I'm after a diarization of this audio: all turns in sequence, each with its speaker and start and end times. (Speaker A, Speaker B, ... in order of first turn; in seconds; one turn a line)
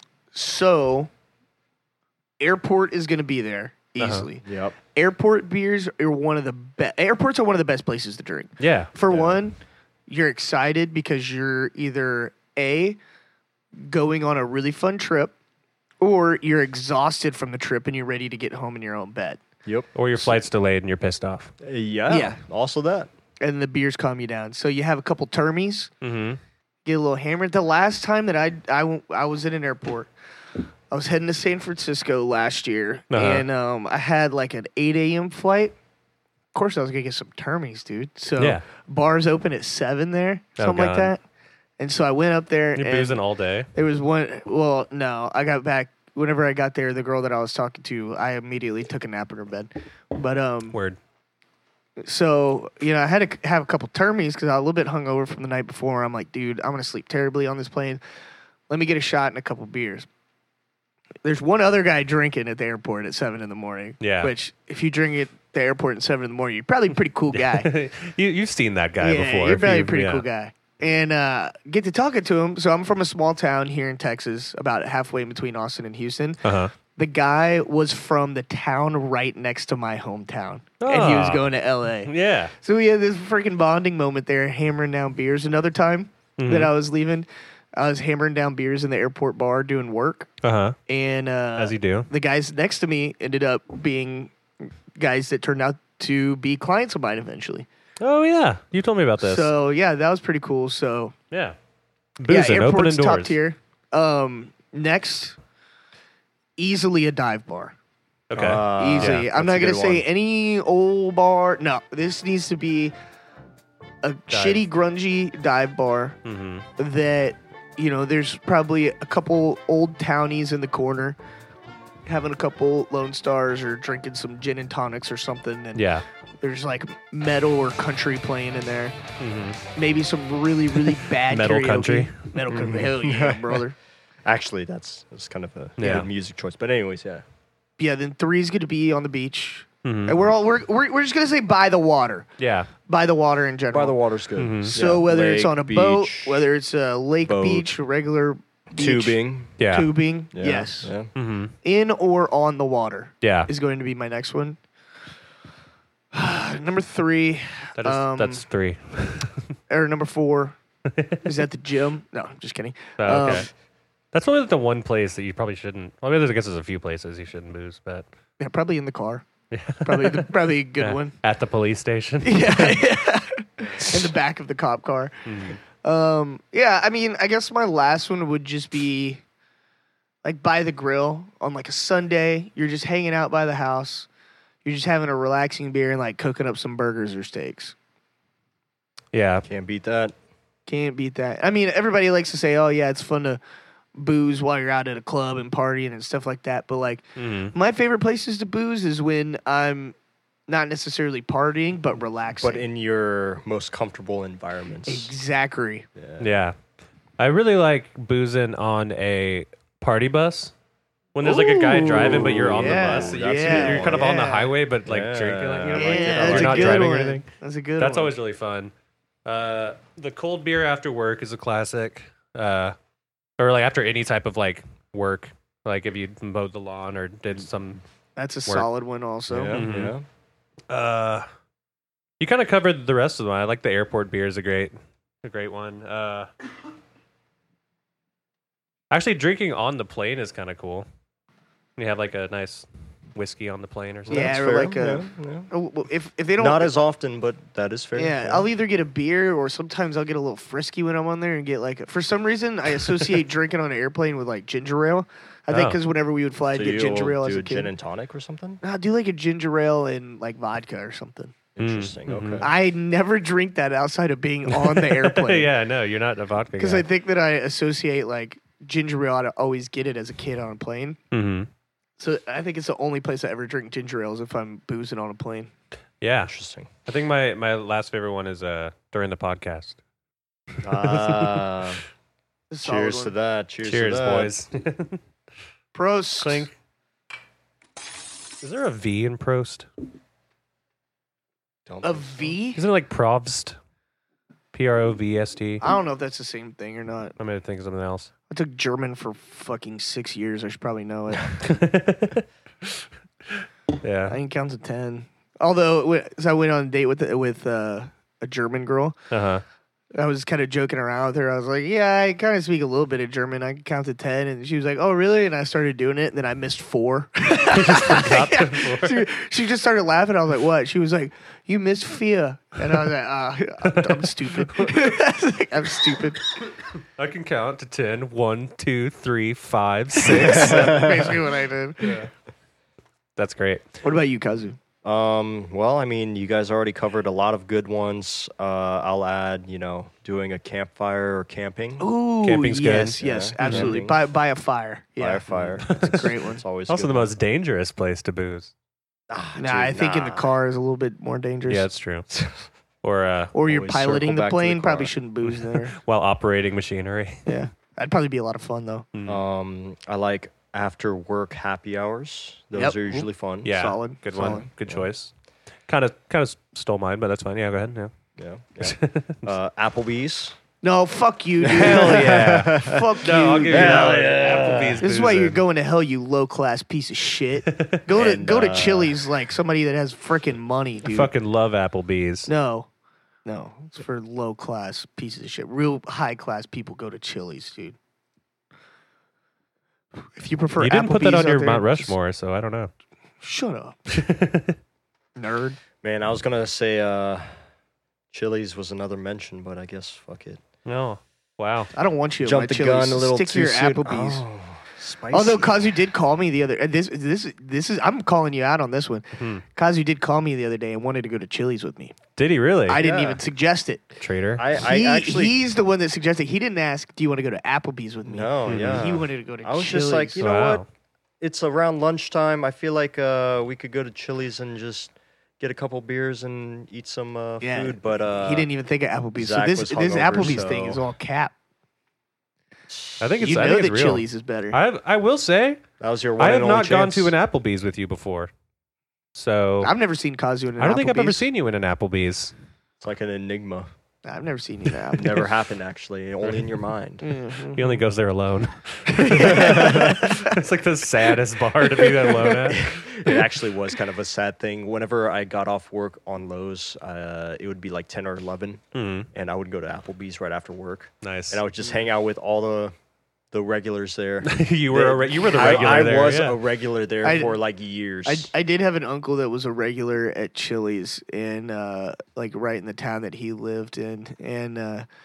Speaker A: 0.3-1.1
Speaker A: 2.4-13.0
Speaker B: 4.0-4.3
Speaker C: 4.5-4.8
Speaker B: 8.6-8.9
Speaker C: 9.1-9.4
Speaker A: 13.8-15.3
Speaker A: 16.0-19.4
Speaker C: 19.6-20.4
Speaker B: 19.9-21.5
Speaker C: 21.6-23.1
Speaker A: 22.1-22.4
Speaker A: 23.4-25.9
Speaker B: 26.0-26.4
Speaker A: 26.9-30.1
Speaker A: 30.9-35.7
Speaker B: 33.1-33.5
Speaker A: 36.5-41.2
Speaker B: 40.6-41.1
Speaker A: 41.8-43.2
Speaker B: 42.8-43.7
Speaker A: 43.7-50.8
Speaker B: 50.7-51.0
Speaker A: 52.0-58.0
Speaker A: 58.7-60.1
Speaker A: 61.2-67.7
Speaker B: 64.0-64.3
Speaker B: 67.3-70.2
Speaker A: 69.0-76.4
Speaker B: 76.4-76.7
Speaker A: 77.0-90.3
Speaker B: 80.8-81.5
Speaker B: 82.0-82.5
Speaker B: 86.4-86.7
Speaker B: 90.4-90.8
Speaker A: 90.9-94.3
Speaker B: 91.6-92.1
Speaker A: 95.0-97.7
Speaker B: 98.0-99.5
Speaker A: 99.2-101.2
Speaker B: 101.3-101.6
Speaker B: 102.2-103.4
Speaker A: 102.3-105.4
Speaker A: 106.6-107.8
Speaker B: 108.3-109.3
Speaker C: 108.3-110.0
Speaker A: 108.8-112.9
Speaker A: 114.0-116.2
Speaker B: 114.3-114.6
Speaker B: 116.2-116.7
Speaker A: 116.8-121.2
Speaker A: 122.1-125.9
Speaker B: 125.8-126.0
Speaker A: 126.4-129.0
Speaker B: 129.2-129.6
Speaker A: 129.8-133.8
Speaker B: 130.9-132.8
Speaker C: 132.5-133.6
Speaker C: 134.2-137.2
Speaker B: 135.8-136.1
Speaker A: 137.8-142.3
Speaker B: 139.8-140.2
Speaker B: 142.4-142.7
Speaker A: 142.9-144.0
Speaker C: 143.7-146.4
Speaker B: 144.4-144.8
Speaker A: 144.7-150.9
Speaker C: 147.2-147.7
Speaker C: 148.7-149.6
Speaker B: 149.6-149.9
Speaker C: 150.3-151.1
Speaker B: 151.2-151.5
Speaker A: 151.6-154.6
Speaker B: 153.2-153.5
Speaker A: 156.1-158.4
Speaker B: 157.8-159.4
Speaker A: 159.7-160.6
Speaker B: 160.9-161.2
Speaker A: 161.2-163.5
Speaker B: 163.0-163.5
Speaker B: 164.1-168.1
Speaker A: 168.4-169.2
Speaker B: 169.5-172.8
Speaker A: 169.8-171.2
Speaker A: 172.2-175.2
Speaker B: 175.3-175.6
Speaker A: 175.8-179.2
Speaker A: 180.2-184.1
Speaker A: 184.6-187.8
Speaker B: 189.1-189.4
Speaker C: 189.4-190.2
Speaker A: 190.7-193.4
Speaker A: 193.9-199.9
Speaker B: 197.2-197.5
Speaker A: 200.5-202.6
Speaker C: 202.4-205.1
Speaker A: 204.9-205.9
Speaker C: 206.0-206.3
Speaker B: 206.2-206.6
Speaker B: 207.2-210.5
Speaker B: 211.2-217.3
Speaker A: 211.2-214.5
Speaker C: 211.9-214.1
Speaker C: 214.9-216.9
Speaker A: 215.7-218.1
Speaker B: 217.8-218.7
Speaker B: 219.2-222.8
Speaker B: 223.4-227.8
Speaker A: 228.2-229.6
Speaker C: 229.3-230.1
Speaker B: 229.5-229.9
Speaker B: 230.7-231.3
Speaker B: 232.2-236.3
Speaker B: 238.9-240.9
Speaker B: 241.8-244.3
Speaker C: 244.1-245.5
Speaker A: 244.1-246.8
Speaker C: 246.4-248.5
Speaker A: 248.0-257.7
Speaker B: 255.5-255.8
Speaker C: 256.5-258.6
Speaker A: 258.6-261.3
Speaker C: 261.6-262.5
Speaker B: 261.6-262.4
Speaker A: 262.4-265.5
Speaker B: 264.5-266.9
Speaker A: 266.6-271.0
Speaker B: 271.1-271.5
Speaker A: 272.0-275.5
Speaker B: 276.0-276.3
Speaker C: 276.3-276.7
Speaker B: 276.9-279.8
Speaker C: 280.6-281.8
Speaker B: 280.7-281.4
Speaker A: 282.5-283.1
Speaker C: 282.6-284.3
Speaker B: 283.6-285.0
Speaker A: 285.7-286.5
Speaker B: 286.2-286.5
Speaker B: 288.4-289.7
Speaker C: 291.7-292.3
Speaker A: 291.8-292.6
Speaker B: 292.6-293.6
Speaker B: 294.5-295.6
Speaker A: 295.6-297.1
Speaker B: 297.2-298.1
Speaker A: 298.3-301.4
Speaker B: 301.4-304.2
Speaker A: 304.1-309.0
Speaker B: 309.1-309.4
Speaker A: 309.9-326.2
Speaker B: 317.5-319.1
Speaker B: 323.6-324.8
Speaker B: 327.0-331.1
Speaker A: 330.0-332.1
Speaker C: 330.1-331.1
Speaker B: 331.8-332.1
Speaker B: 333.2-333.7
Speaker A: 333.8-334.6
Speaker C: 334.8-341.9
Speaker A: 341.8-346.4
Speaker B: 342.2-343.7
Speaker C: 342.6-343.9
Speaker C: 345.0-347.1
Speaker B: 345.3-346.1
Speaker B: 346.7-348.5
Speaker C: 349.1-350.3
Speaker A: 349.4-351.7
Speaker B: 351.5-352.1
Speaker B: 352.8-353.3
Speaker A: 353.3-355.8
Speaker C: 353.4-354.9
Speaker B: 355.3-357.3
Speaker A: 357.3-358.9
Speaker B: 358.9-359.2
Speaker C: 359.1-363.5
Speaker A: 362.5-364.5
Speaker B: 363.4-365.1
Speaker B: 365.7-367.9
Speaker C: 368.2-370.4
Speaker B: 368.6-369.3
Speaker A: 370.6-374.2
Speaker C: 371.4-373.0
Speaker B: 371.5-375.4
Speaker C: 373.5-374.9
Speaker A: 374.8-381.1
Speaker B: 377.5-377.7
Speaker C: 377.9-379.0
Speaker B: 380.8-382.3
Speaker A: 382.3-382.7
Speaker A: 383.2-387.8
Speaker A: 390.2-391.9
Speaker B: 390.6-392.7
Speaker A: 393.2-393.8
Speaker B: 393.9-394.6
Speaker A: 395.2-395.6
Speaker C: 395.8-397.4
Speaker C: 398.1-400.4
Speaker B: 400.7-401.7
Speaker A: 401.7-404.2
Speaker C: 402.2-405.7
Speaker A: 405.1-412.0
Speaker B: 409.2-409.4
Speaker B: 412.2-412.8
Speaker A: 412.7-413.9
Speaker C: 412.8-413.2
Speaker B: 414.0-414.4
Speaker C: 414.4-415.4
Speaker A: 414.6-420.2
Speaker C: 418.1-420.6
Speaker B: 418.5-418.9
Speaker B: 420.2-420.6
Speaker C: 421.2-428.5
Speaker A: 427.4-431.3
Speaker C: 429.2-430.8
Speaker C: 432.7-433.4
Speaker B: 433.0-435.6
Speaker A: 433.2-434.6
Speaker C: 435.8-437.1
Speaker B: 436.2-438.3
Speaker B: 439.1-439.7
Speaker A: 439.6-441.3
Speaker B: 440.6-442.3
Speaker C: 442.8-443.7
Speaker A: 444.1-445.3
Speaker C: 444.9-447.1
Speaker A: 447.0-447.8
Speaker B: 447.5-452.7
Speaker A: 448.9-450.4
Speaker C: 449.2-450.0
Speaker A: 451.8-452.5
Speaker C: 452.4-462.7
Speaker B: 458.7-459.1
Speaker B: 461.0-461.4
Speaker C: 463.3-468.3
Speaker B: 464.2-466.4
Speaker A: 467.0-467.4
Speaker A: 468.1-474.9